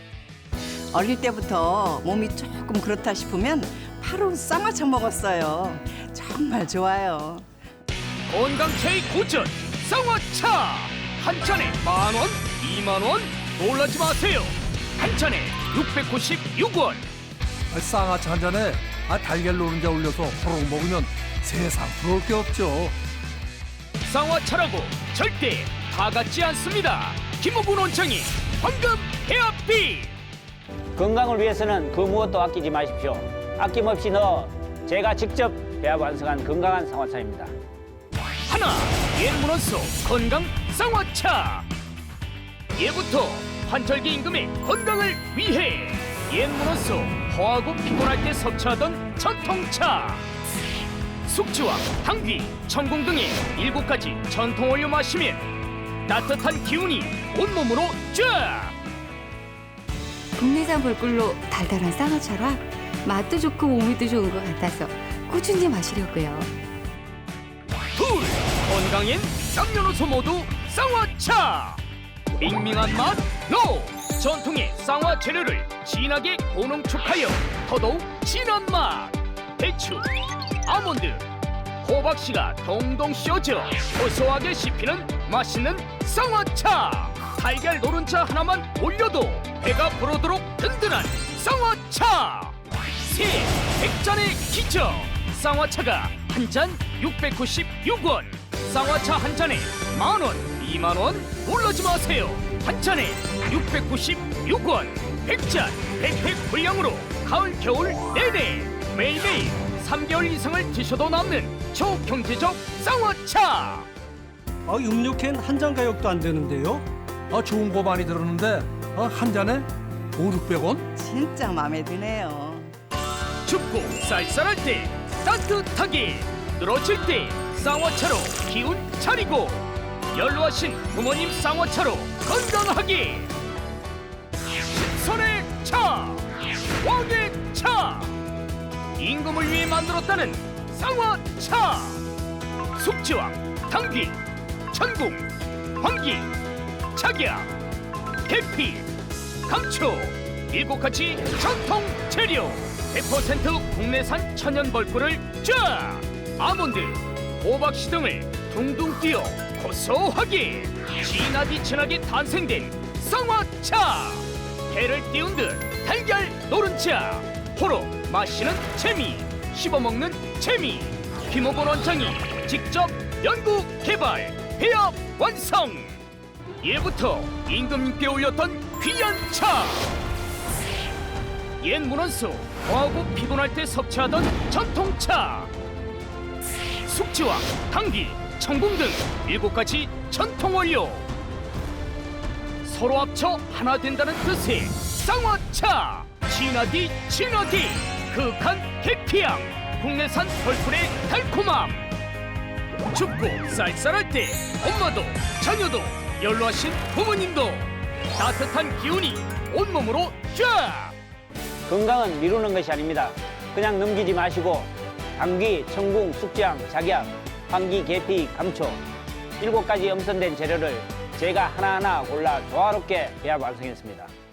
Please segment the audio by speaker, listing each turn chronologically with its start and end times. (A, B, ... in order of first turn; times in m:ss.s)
0:00.9-0:07.5 A
0:08.3-0:17.0 B
0:17.7-0:23.0 C
0:24.0-0:30.1 B
0:31.0-0:37.5 D
0:38.5-0:41.7 B
0:42.8-0:50.2 B
0:51.2-0:55.4 B
0:56.1-0:58.8 B
1:00.4-1:06.5 E
1:07.9-1:11.8 B
1:12.4-1:20.1 B
1:20.6-1:21.2 B
1:21.8-1:53.9 B
1:54.7-1:56.9 F
1:57.3-2:00.9 C
2:01.0-2:02.7 A
2:03.4-2:13.3 B
2:14.6-2:16.2 B
2:16.8-2:18.2 B
2:19.0-2:22.0 B
2:22.8-2:26.3 B
2:26.9-2:27.5 B
2:28.3-2:28.9 B
2:29.5-2:56.0 B
2:56.6-3:00.0 B
3:01.6-3:05.5 B
3:06.8-3:11.1 B
3:12.6-3:21.9 B
3:22.9-3:31.0 B
3:31.7-3:38.8 D
3:39.4-3:44.1 D